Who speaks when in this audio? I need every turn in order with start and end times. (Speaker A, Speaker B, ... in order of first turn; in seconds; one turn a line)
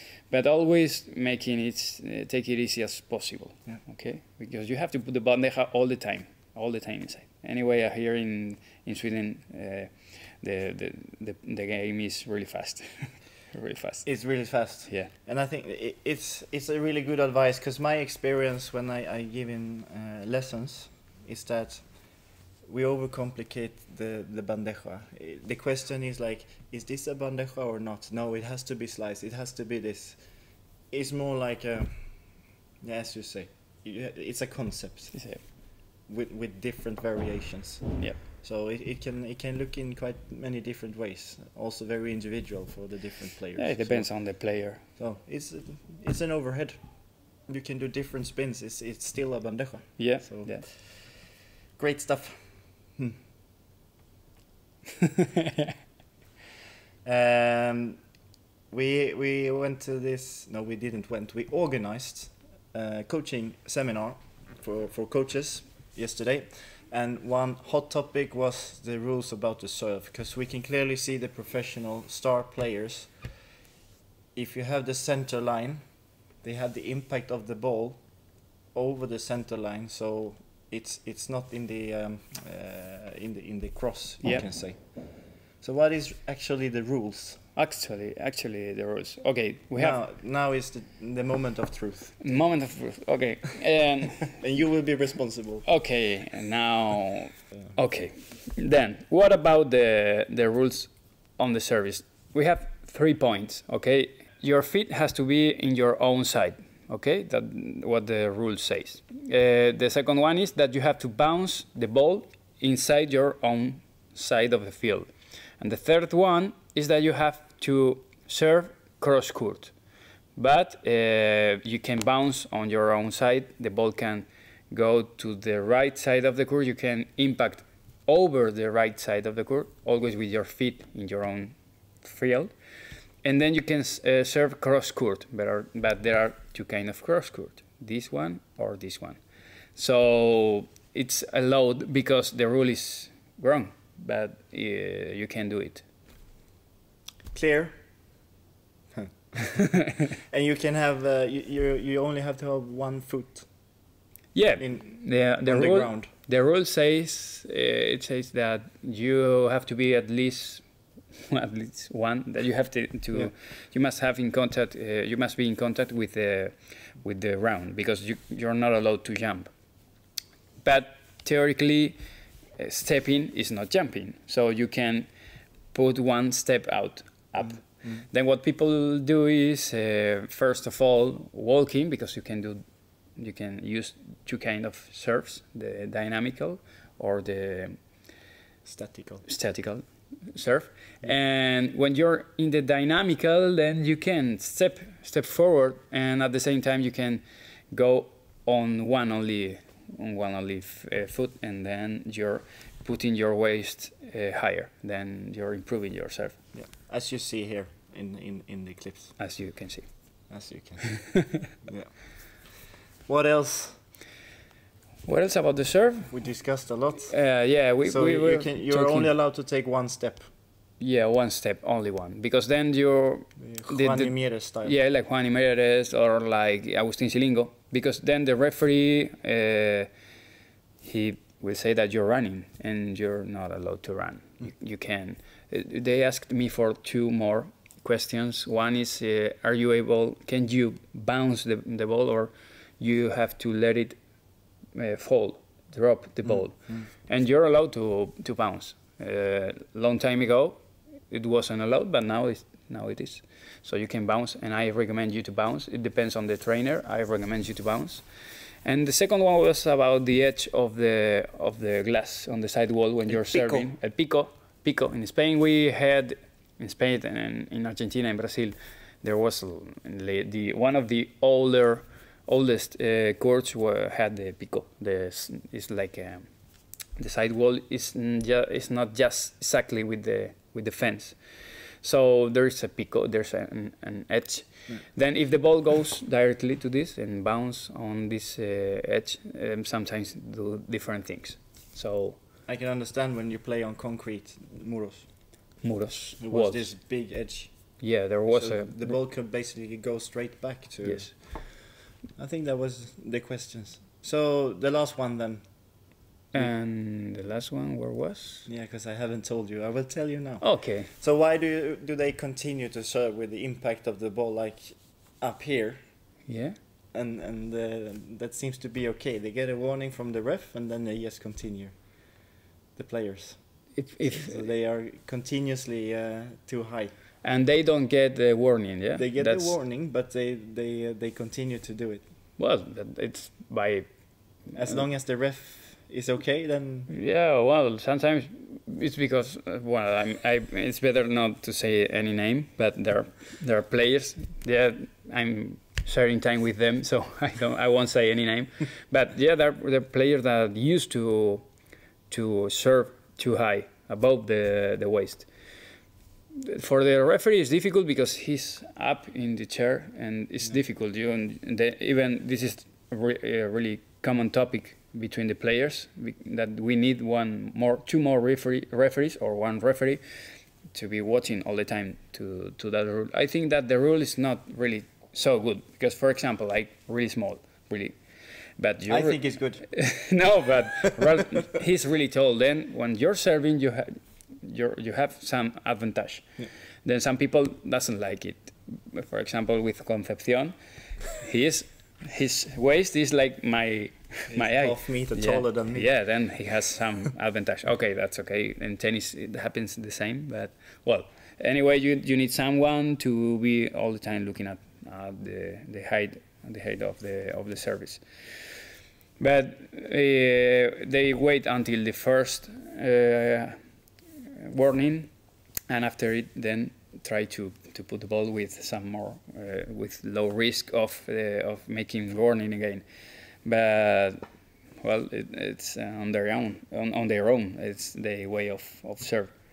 Speaker A: 0.3-15.1
Speaker B: 14.0-35.5
Speaker A: 35.1-35.4
Speaker B: 36.0-53.2
Speaker A: 43.5-44.8
Speaker A: 50.0-50.6
Speaker B: 57.0-58.0
Speaker B: 58.7-73.3
Speaker B: 74.3-87.4
Speaker A: 84.2-84.5
Speaker A: 87.5-90.0
Speaker B: 89.7-92.3
Speaker A: 92.2-94.4
Speaker B: 94.3-95.7
Speaker A: 95.6-119.7
Speaker A: 120.3-132.5
Speaker A: 133.2-139.2
Speaker A: 139.7-145.8
Speaker B: 147.3-147.7
Speaker B: 148.9-153.8
Speaker A: 154.3-169.5
Speaker B: 154.6-156.1
Speaker A: 170.6-172.0
Speaker A: 172.5-175.1
Speaker A: 175.7-182.6
Speaker B: 177.4-178.0
Speaker A: 183.1-187.8
Speaker B: 188.6-189.2
Speaker A: 189.2-206.4
Speaker B: 206.5-209.2
Speaker A: 209.2-210.1
Speaker B: 210.3-213.8
Speaker A: 215.0-216.4
Speaker B: 216.1-220.3
Speaker A: 217.1-219.1
Speaker A: 220.8-229.9
Speaker B: 223.4-224.8
Speaker A: 230.8-244.0
Speaker A: 244.7-258.0
Speaker B: 246.2-246.9
Speaker A: 258.6-292.2
Speaker B: 263.1-263.6
Speaker B: 292.5-295.2
Speaker A: 295.6-296.8
Speaker B: 296.2-306.5
Speaker A: 297.8-298.9
Speaker A: 300.8-301.1
Speaker A: 306.3-308.5
Speaker B: 308.5-315.9
Speaker A: 310.4-310.9
Speaker A: 316.2-316.6
Speaker B: 316.9-326.9
Speaker A: 323.7-324.4
Speaker A: 327.2-329.6
Speaker B: 328.9-332.1
Speaker A: 332.4-333.9
Speaker A: 334.4-334.8
Speaker B: 334.5-336.9
Speaker A: 336.9-351.5
Speaker A: 352.1-355.3
Speaker A: 356.3-370.0
Speaker A: 370.7-378.0
Speaker A: 378.6-386.2
Speaker B: 378.9-379.7
Speaker A: 386.8-408.6
Speaker B: 394.3-395.9
Speaker A: 409.2-413.6
Speaker A: 414.2-415.1
Speaker A: 415.7-422.8
Speaker A: 423.4-424.2
Speaker A: 424.8-429.3